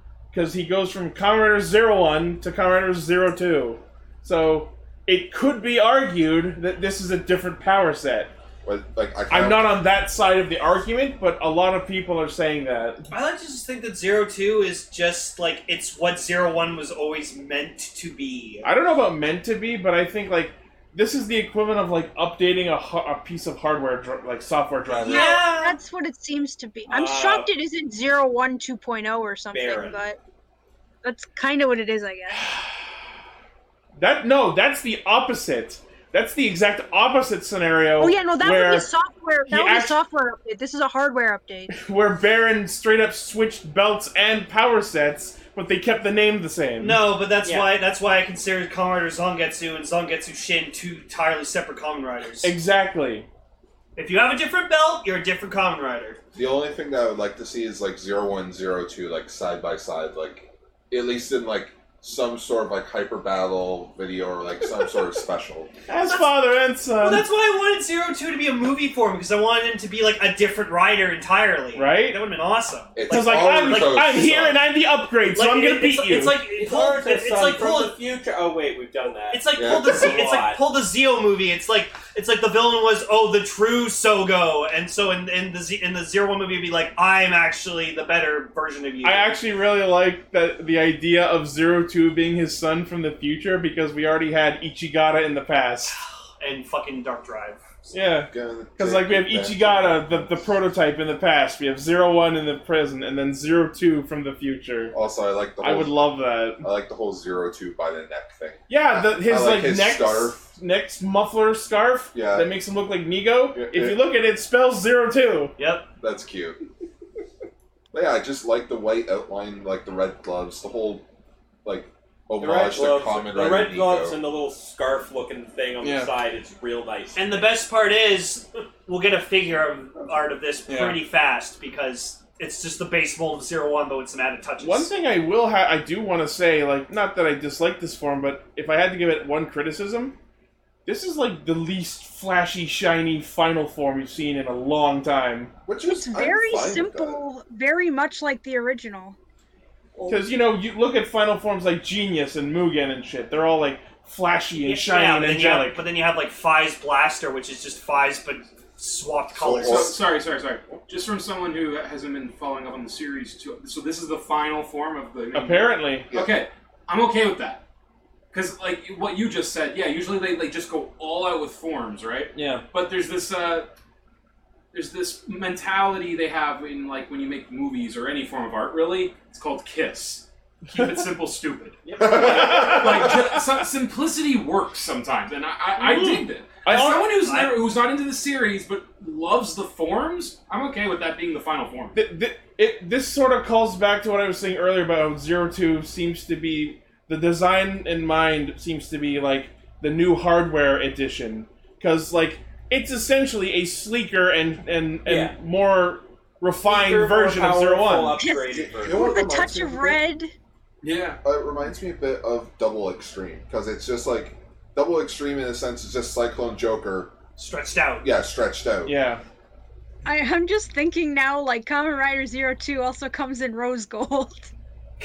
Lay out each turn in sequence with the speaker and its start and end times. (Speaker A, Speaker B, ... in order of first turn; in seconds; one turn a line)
Speaker A: 0.3-8.3
Speaker B: 8.6-9.8
Speaker A: 9.3-13.1
Speaker C: 13.1-18.7
Speaker A: 18.6-25.4
Speaker C: 25.0-25.8
Speaker D: 25.0-30.2
Speaker E: 26.9-27.5
Speaker E: 29.5-30.0
Speaker D: 31.0-32.5
Speaker A: 34.0-38.9
Speaker D: 38.0-41.7
Speaker A: 39.5-40.0
Speaker A: 41.7-47.0
Speaker C: 46.8-52.5
Speaker E: 47.4-47.8
Speaker A: 52.4-53.3
Speaker C: 54.0-56.2
Speaker B: 56.3-65.7
Speaker A: 65.9-67.2
Speaker C: 67.0-74.2
Speaker A: 71.7-72.2
Speaker B: 73.0-74.6
Speaker A: 73.1-76.4
Speaker C: 75.2-78.0
Speaker E: 76.5-80.6
Speaker C: 79.3-89.3
Speaker B: 79.5-80.2
Speaker A: 89.0-96.0
Speaker C: 96.4-97.6
Speaker B: 97.9-100.5
Speaker A: 97.9-104.9
Speaker B: 104.9-106.0
Speaker A: 105.6-106.7
Speaker B: 106.6-110.4
Speaker A: 108.7-115.5
Speaker B: 112.1-112.5
Speaker B: 113.5-114.0
Speaker C: 115.6-115.9
Speaker B: 116.0-116.6
Speaker B: 117.9-121.0
Speaker B: 121.6-124.2
Speaker E: 122.4-127.5
Speaker A: 125.8-126.1
Speaker C: 127.2-134.9
Speaker A: 130.7-131.0
Speaker A: 134.6-140.2
Speaker A: 140.8-145.5
Speaker B: 145.7-147.2
Speaker D: 145.8-149.2
Speaker A: 150.1-155.8
Speaker C: 154.6-159.9
Speaker B: 159.3-160.0
Speaker F: 159.6-167.6
Speaker A: 165.3-166.1
Speaker B: 166.1-166.4
Speaker F: 168.3-173.7
Speaker A: 172.3-172.6
Speaker F: 174.7-192.0
Speaker E: 181.8-182.7
Speaker B: 182.0-183.0
Speaker A: 182.2-183.1
Speaker C: 185.8-186.2
Speaker A: 186.6-187.1
Speaker C: 187.2-187.6
Speaker A: 191.9-208.2
Speaker E: 205.0-205.3
Speaker E: 206.6-209.1
Speaker D: 208.2-210.3
Speaker B: 208.5-210.0
Speaker F: 210.8-211.2
Speaker B: 211.2-217.2
Speaker C: 217.4-218.1
Speaker B: 218.0-218.9
Speaker A: 218.8-219.2
Speaker D: 220.0-224.5